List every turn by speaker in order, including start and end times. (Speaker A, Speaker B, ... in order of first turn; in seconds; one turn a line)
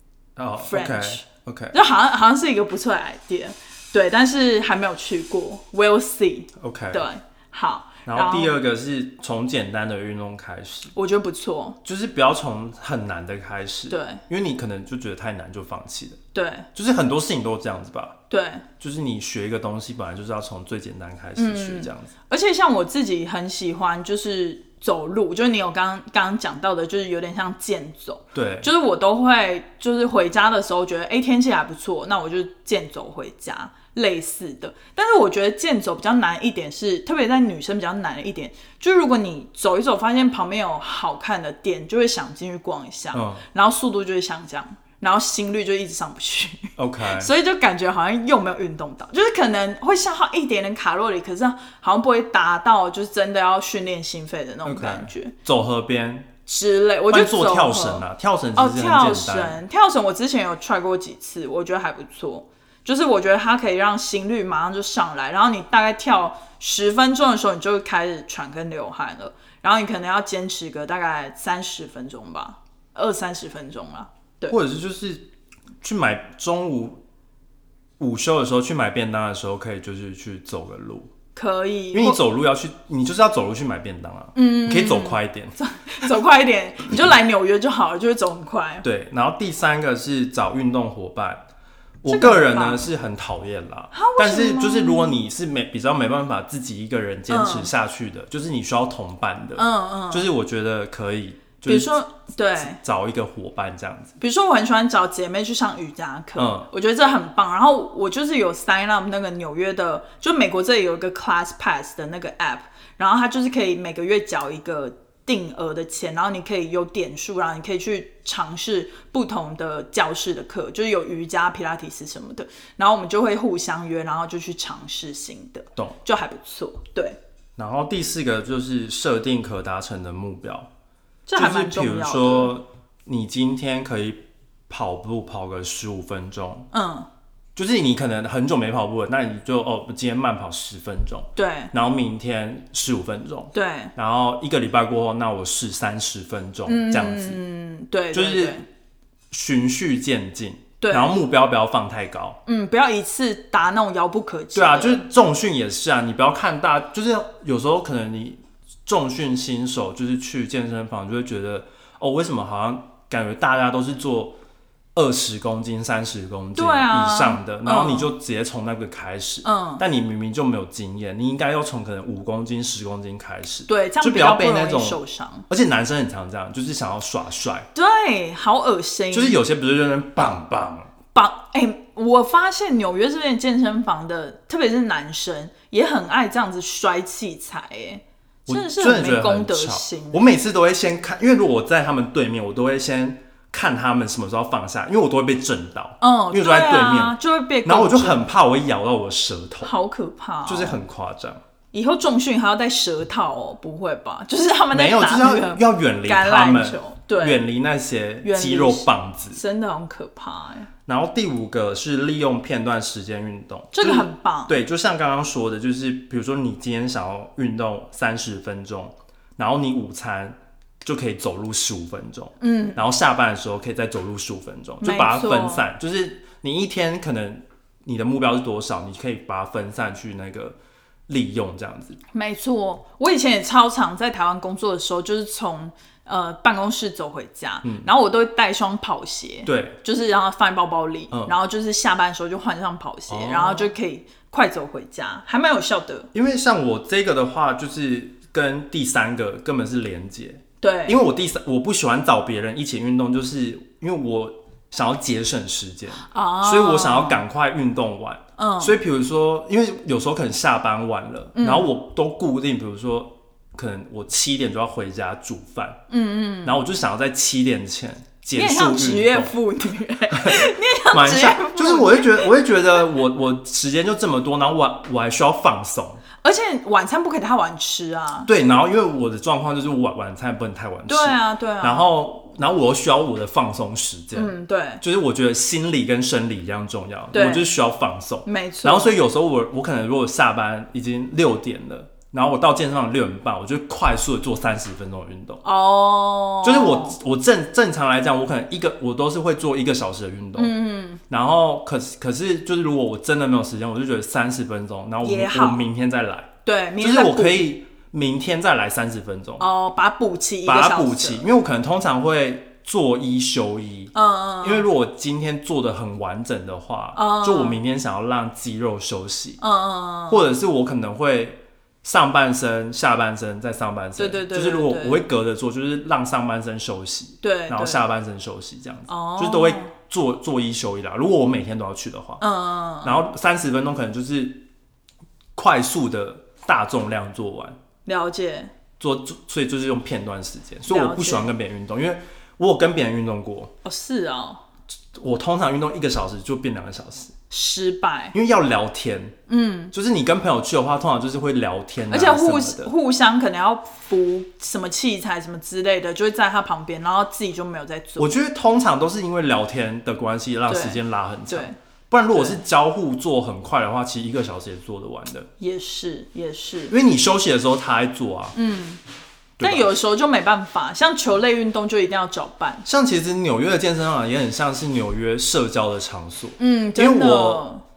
Speaker A: 0.4-1.8
Speaker B: 0.6-8.6
Speaker A: 6.6-7.0
Speaker A: 8.1-10.9
Speaker B: 10.9-11.8
Speaker A: 11.8-16.2
Speaker B: 13.9-14.2
Speaker B: 16.3-16.7
Speaker A: 16.8-18.2
Speaker B: 18.3-18.7
Speaker A: 18.8-22.1
Speaker B: 21.4-55.3
Speaker A: 28.3-28.7
Speaker A: 43.1-43.4
Speaker A: 46.8-47.3
Speaker A: 54.6-56.3
Speaker B: 56.5-74.6
Speaker A: 57.1-59.6
Speaker A: 74.5-75.3
Speaker A: 75.8-77.0
Speaker A: 78.0-81.1
Speaker B: 81.3-82.2
Speaker A: 81.9-85.5
Speaker B: 84.3-88.8
Speaker A: 88.8-91.5
Speaker A: 92.0-102.0
Speaker B: 92.1-92.8
Speaker B: 93.9-95.2
Speaker B: 97.3-97.7
Speaker B: 99.6-100.3
Speaker B: 101.7-102.8
Speaker A: 102.6-104.1
Speaker B: 104.2-127.2
Speaker A: 106.4-106.7
Speaker A: 127.6-130.7
Speaker B: 131.3-132.5
Speaker A: 131.3-136.7
Speaker B: 136.7-137.1
Speaker A: 137.6-147.4
Speaker B: 141.4-141.7
Speaker B: 143.5-143.9
Speaker B: 146.7-148.7
Speaker A: 148.1-148.6
Speaker A: 149.3-152.4
Speaker B: 150.8-151.2
Speaker B: 152.5-155.1
Speaker A: 154.5-164.3
Speaker A: 164.9-177.7
Speaker B: 166.6-168.1
Speaker B: 169.4-169.8
Speaker B: 173.7-175.5
Speaker B: 177.8-179.4
Speaker A: 179.1-180.9
Speaker B: 181.1-190.2
Speaker A: 188.5-199.7
Speaker B: 196.0-198.3
Speaker B: 199.6-200.8
Speaker A: 200.4-201.4
Speaker B: 201.7-207.4
Speaker A: 204.7-209.4
Speaker B: 208.2-210.7
Speaker A: 210.9-230.6
Speaker B: 213.7-214.6
Speaker B: 222.4-222.8
Speaker B: 224.8-225.7
Speaker A: 231.1-232.0
Speaker B: 232.1-246.1
Speaker A: 237.6-237.9
Speaker A: 239.5-239.8
Speaker A: 243.1-243.7
Speaker A: 246.1-265.8
Speaker B: 250.6-251.0
Speaker B: 256.0-257.2
Speaker B: 258.4-258.8
Speaker B: 261.4-261.7
Speaker B: 265.9-266.6
Speaker A: 266.4-269.3
Speaker B: 268.3-272.3
Speaker A: 270.1-276.0
Speaker B: 276.2-278.3
Speaker A: 278.3-295.4
Speaker B: 280.9-281.9
Speaker B: 284.1-284.8
Speaker B: 287.1-287.6
Speaker B: 288.3-288.9
Speaker B: 295.4-297.0
Speaker A: 296.4-300.5
Speaker B: 300.4-301.0
Speaker A: 301.1-309.5
Speaker B: 305.0-305.7
Speaker B: 306.4-307.5
Speaker B: 309.4-311.2
Speaker A: 310.4-319.4
Speaker B: 313.9-314.7
Speaker B: 317.0-317.6
Speaker B: 319.4-320.3
Speaker A: 320.1-332.2
Speaker B: 324.0-325.1
Speaker B: 327.2-327.8
Speaker B: 328.9-329.7
Speaker B: 332.2-333.0
Speaker A: 332.8-334.5
Speaker A: 335.4-337.6
Speaker B: 337.9-338.5
Speaker A: 338.8-343.5
Speaker B: 340.7-341.3
Speaker B: 343.6-344.4
Speaker A: 344.9-347.1
Speaker B: 347.3-348.2
Speaker A: 348.1-349.2
Speaker B: 349.3-349.7
Speaker A: 349.7-352.7
Speaker B: 351.9-358.1
Speaker A: 358.0-365.3
Speaker B: 360.5-361.6
Speaker B: 362.1-362.4
Speaker B: 365.4-366.7
Speaker A: 366.7-368.4
Speaker B: 368.4-368.8
Speaker A: 369.4-369.7
Speaker B: 369.4-372.6
Speaker A: 372.6-377.4
Speaker B: 376.4-377.6